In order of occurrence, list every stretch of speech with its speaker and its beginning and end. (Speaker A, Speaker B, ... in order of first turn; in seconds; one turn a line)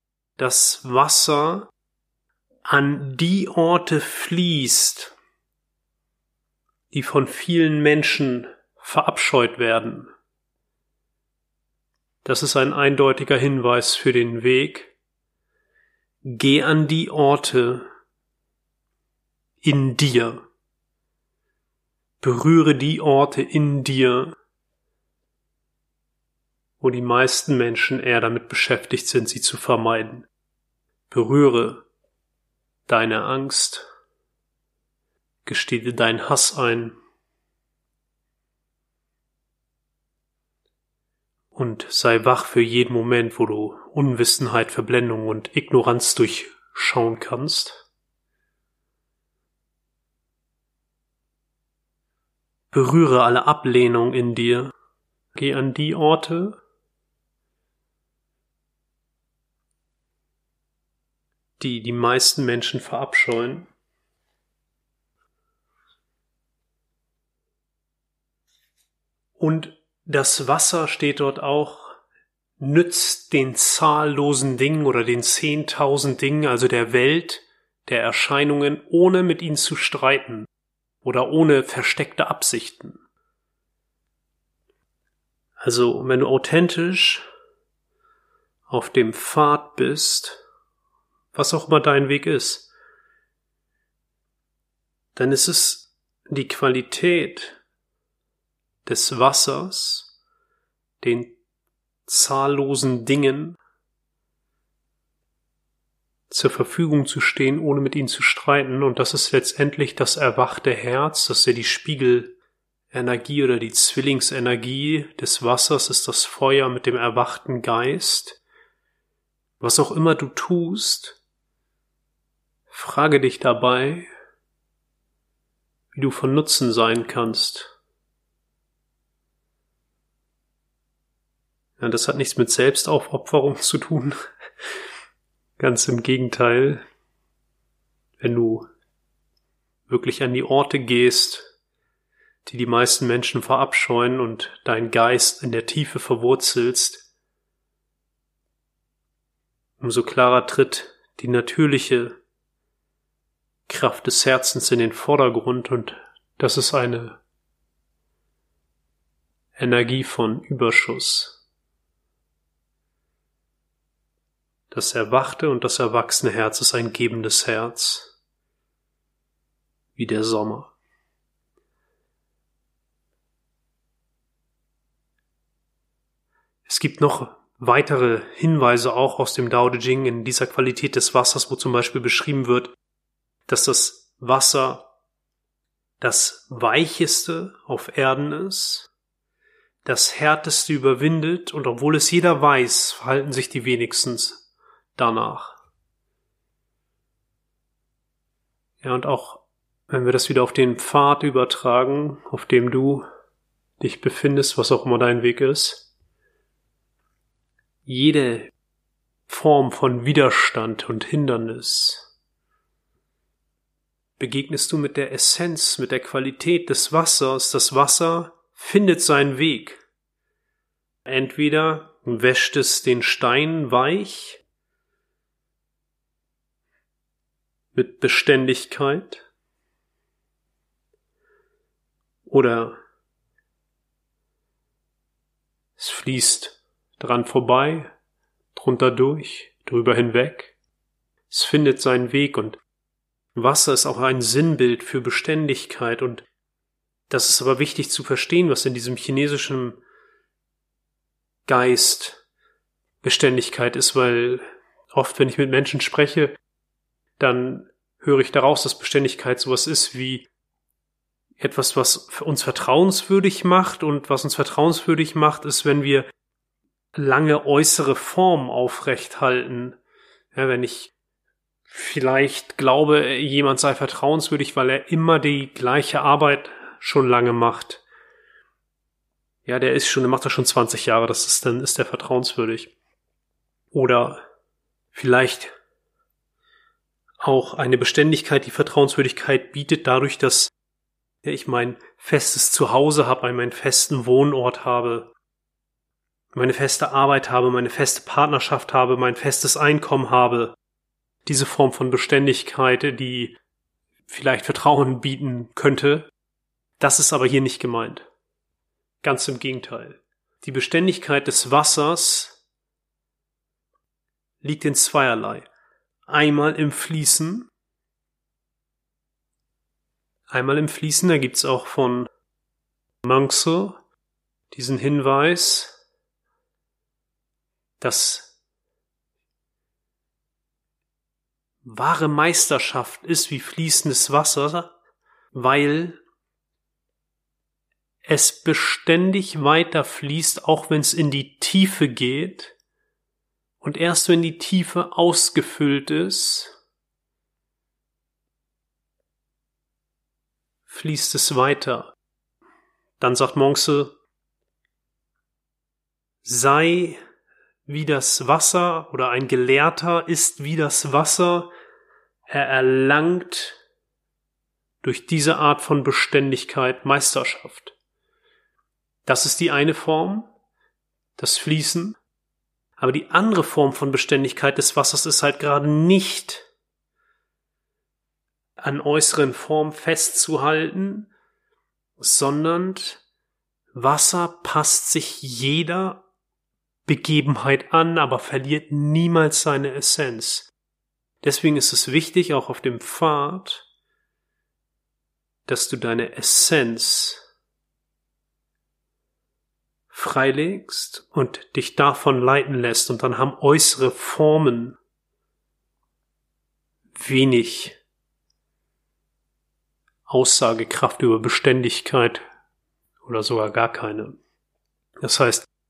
Speaker A: 0.4-1.7
Speaker A: 2.6-5.1
Speaker A: 6.9-10.1
Speaker A: 12.2-14.9
Speaker A: 16.2-17.9
Speaker A: 19.6-20.5
Speaker A: 22.2-24.4
Speaker A: 26.8-30.3
Speaker A: 31.1-31.8
Speaker A: 32.9-33.9
Speaker A: 35.4-37.0
Speaker A: 41.5-47.8
Speaker A: 52.7-54.7
Speaker A: 55.3-56.6
Speaker A: 61.6-63.7
Speaker A: 69.4-72.0
Speaker A: 72.6-80.5
Speaker A: 81.0-83.0
Speaker A: 85.6-87.2
Speaker A: 88.7-90.4
Speaker A: 91.3-92.7
Speaker A: 95.1-97.6
Speaker A: 98.8-100.1
Speaker A: 101.0-101.3
Speaker A: 102.1-103.6
Speaker A: 106.3-112.3
Speaker A: 112.9-118.4
Speaker A: 119.6-121.2
Speaker A: 122.7-124.1
Speaker A: 125.9-127.7
Speaker A: 131.8-134.2
Speaker A: 135.6-136.8
Speaker A: 138.2-138.7
Speaker A: 139.9-141.5
Speaker A: 142.4-147.0
Speaker A: 149.8-152.2
Speaker A: 153.7-157.2
Speaker A: 159.6-161.4
Speaker A: 164.7-168.1
Speaker A: 169.9-170.7
Speaker A: 176.7-182.8
Speaker A: 183.5-184.9
Speaker A: 186.0-188.9
Speaker A: 189.8-194.4
Speaker A: 194.9-195.6
Speaker A: 198.8-203.1
Speaker A: 203.8-205.9
Speaker A: 207.8-208.5
Speaker A: 209.3-212.1
Speaker A: 214.2-219.8
Speaker A: 221.1-224.4
Speaker A: 227.7-229.2
Speaker A: 232.2-232.8
Speaker A: 235.8-237.9
Speaker A: 238.5-240.5
Speaker A: 241.3-242.6
Speaker A: 243.3-246.2
Speaker A: 247.1-249.8
Speaker A: 251.4-252.2
Speaker A: 253.0-256.4
Speaker A: 257.2-260.3
Speaker A: 261.4-266.1
Speaker A: 266.9-269.8
Speaker A: 270.3-270.9
Speaker A: 271.7-277.8
Speaker A: 279.4-282.7
Speaker A: 283.7-284.2
Speaker A: 284.9-285.5
Speaker A: 287.2-290.5
Speaker A: 291.2-295.1
Speaker A: 296.3-300.6
Speaker A: 301.2-303.4
Speaker A: 304.1-306.1
Speaker A: 306.8-308.1
Speaker A: 309.0-312.4
Speaker A: 314.4-315.5
Speaker A: 316.1-317.5
Speaker A: 320.3-322.1
Speaker A: 323.0-323.8
Speaker A: 324.5-325.7
Speaker A: 327.8-328.4
Speaker A: 331.6-334.8
Speaker A: 335.3-336.0
Speaker A: 338.0-342.6
Speaker A: 343.6-346.5
Speaker A: 350.7-351.9
Speaker A: 353.0-353.9
Speaker A: 356.2-357.0
Speaker A: 357.7-361.5
Speaker A: 362.3-363.6
Speaker A: 364.8-367.7
Speaker A: 369.1-370.3
Speaker A: 371.2-372.0
Speaker A: 372.8-376.4
Speaker A: 378.6-381.1
Speaker A: 382.0-383.0
Speaker A: 383.7-386.0
Speaker A: 386.9-390.5
Speaker A: 391.2-393.6
Speaker A: 395.4-397.2
Speaker A: 399.9-404.8
Speaker A: 406.9-407.8
Speaker A: 410.1-412.2
Speaker A: 413.0-414.2
Speaker A: 415.0-415.5